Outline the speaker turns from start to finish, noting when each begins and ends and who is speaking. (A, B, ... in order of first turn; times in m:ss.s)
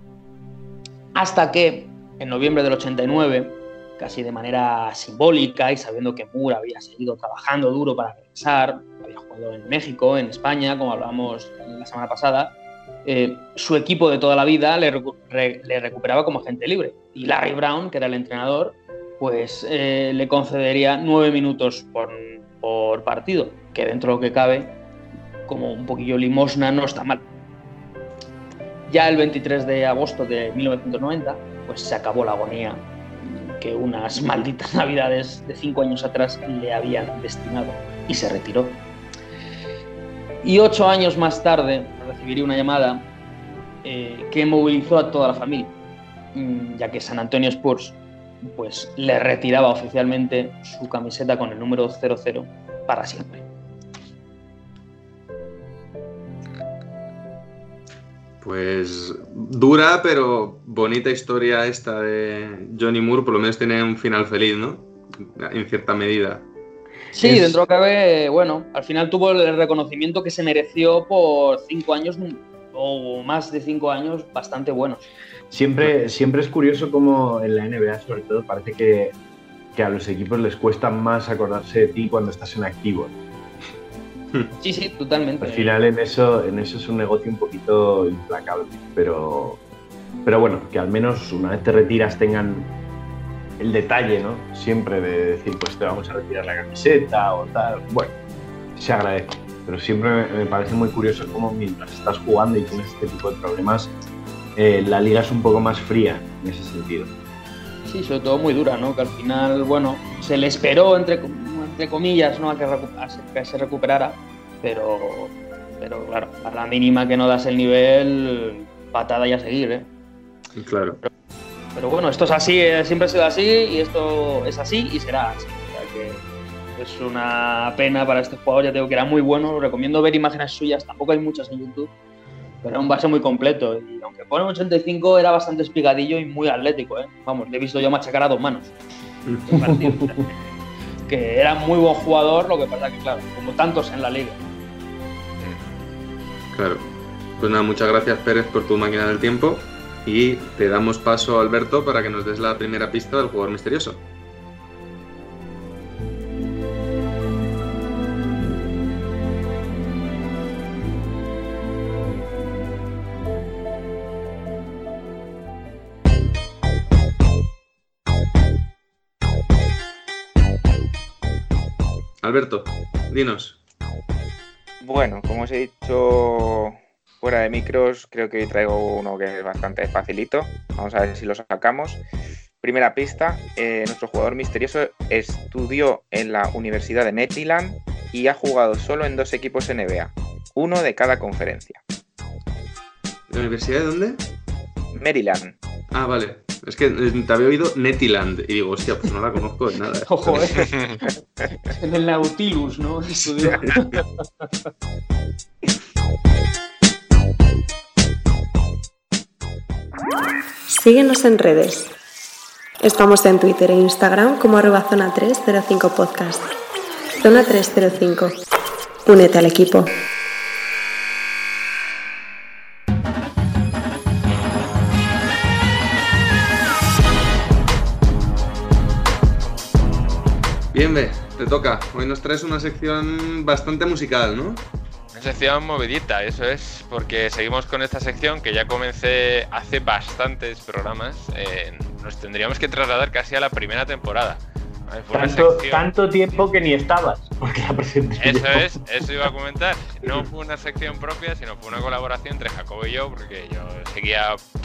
0:01.1-0:12.5 A
0:13.0-0:24.7 A
0:25.5-0:27.2 A
0:28.9-0:38.8 A
0:40.4-0:43.0 A
0:43.8-0:45.7 A
0:46.3-0:53.4 A
0:58.4-1:06.4 B
1:07.1-1:15.1 A
1:07.2-1:07.6 C
1:15.5-1:19.1 C
1:19.7-1:23.1 C
1:24.6-1:25.7 A
1:25.4-1:29.6 C
1:30.2-1:32.7 C
1:33.6-1:38.1 C
1:38.8-1:43.9 C
1:44.6-1:47.1 C
1:47.8-1:59.9 A
2:00.6-2:01.0 B
2:01.7-2:06.2 A
2:06.8-2:11.9 A
2:12.6-2:18.7 A
2:19.5-2:20.3 A
2:21.1-2:24.4 A
2:26.5-2:26.8 B
2:27.4-2:34.0 B
2:52.2-2:53.6 B
2:54.8-3:02.0 D
3:02.6-3:11.8 D
3:13.3-3:14.2 B
3:14.9-3:15.5 D
3:15.9-3:20.6 B
3:20.1-3:20.7 A
3:21.7-3:24.0 A
3:30.7-3:31.9 E
3:32.8-3:36.5 E
3:37.2-3:38.4 E
3:39.0-3:40.0 E
3:50.7-3:54.6 B
3:55.1-4:05.9 F
4:05.1-4:09.3 C
4:08.2-4:14.4 F